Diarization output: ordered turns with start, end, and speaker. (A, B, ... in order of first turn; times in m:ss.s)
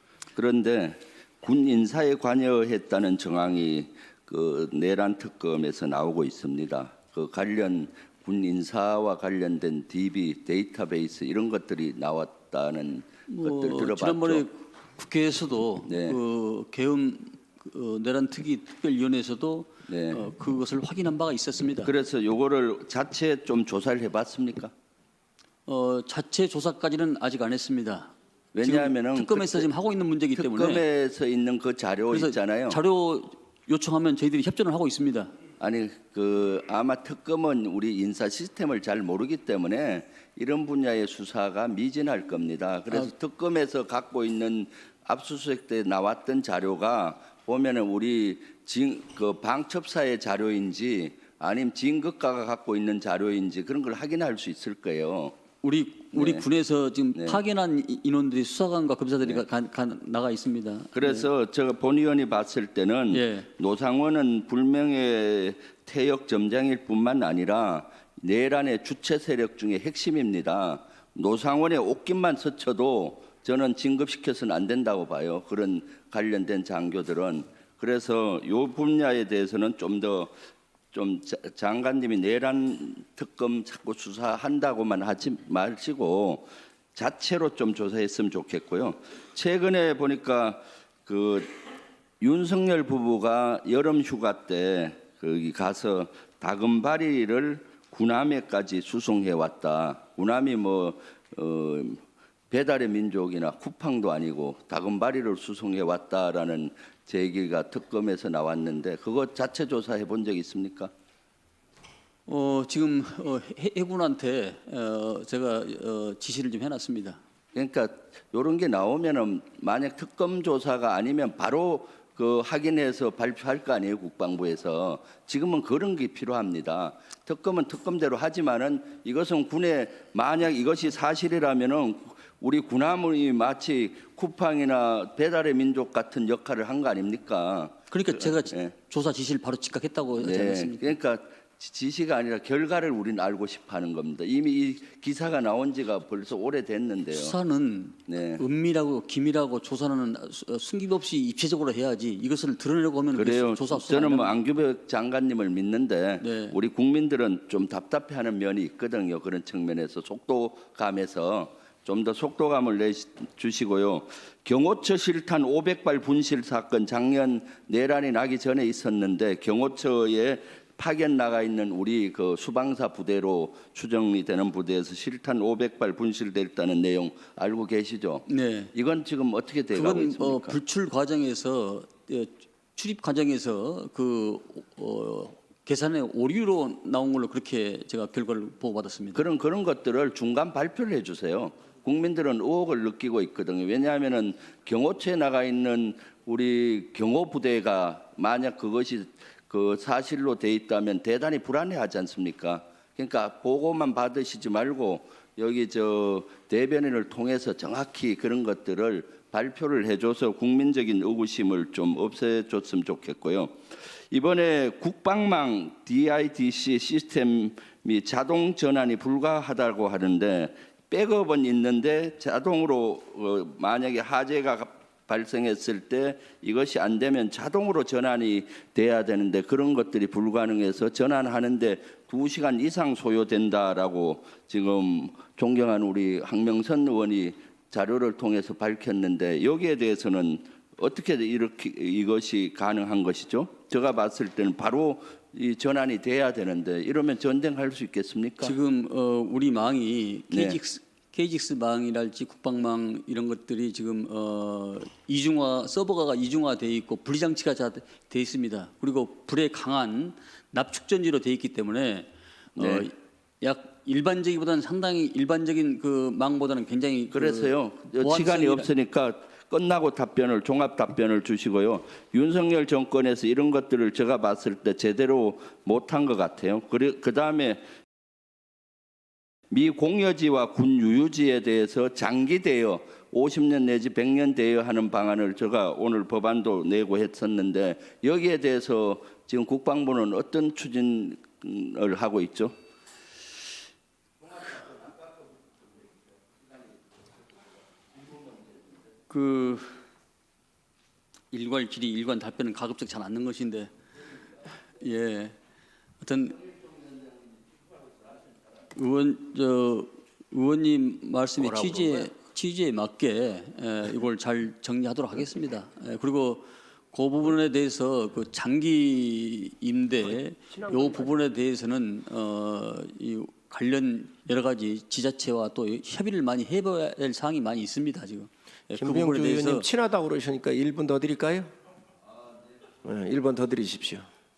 0:00.3-0:14.4 A
0:13.3-0:21.9 B
0:15.8-0:16.2 A
0:19.9-0:20.2 A
0:21.8-0:24.7 A
0:25.6-0:28.1 B
0:28.5-0:29.7 A
0:28.6-0:30.8 B
0:30.4-0:32.8 A
0:32.1-0:35.3 B
0:35.6-0:55.4 A
0:55.6-1:01.3 B
0:56.1-0:56.5 A
0:57.1-0:57.4 A
1:00.9-1:20.3 A
1:03.1-1:03.5 B
1:20.9-1:31.5 A
1:32.2-1:50.9 A
1:52.3-1:57.2 B
1:57.5-2:18.7 A
2:17.9-2:20.9 B
2:20.2-2:27.4 A
2:27.1-2:34.3 B
2:28.1-2:28.4 A
2:33.1-3:00.6 A
2:36.2-2:36.6 B
2:58.3-2:58.7 B
2:59.7-3:09.2 B
3:09.1-3:33.5 A
3:34.1-4:08.6 A
4:08.4-4:28.7 B
4:10.3-4:10.6 A
4:22.6-4:22.9 A
4:27.1-4:37.6 A
4:39.5-4:52.5 A
4:59.1-4:59.8 B
5:01.3-5:03.7 B
5:04.8-5:05.3 B
5:06.0-5:06.4 B
5:08.7-5:29.7 B
5:20.5-5:21.1 C
5:28.8-5:31.5 C
5:32.8-5:34.1 C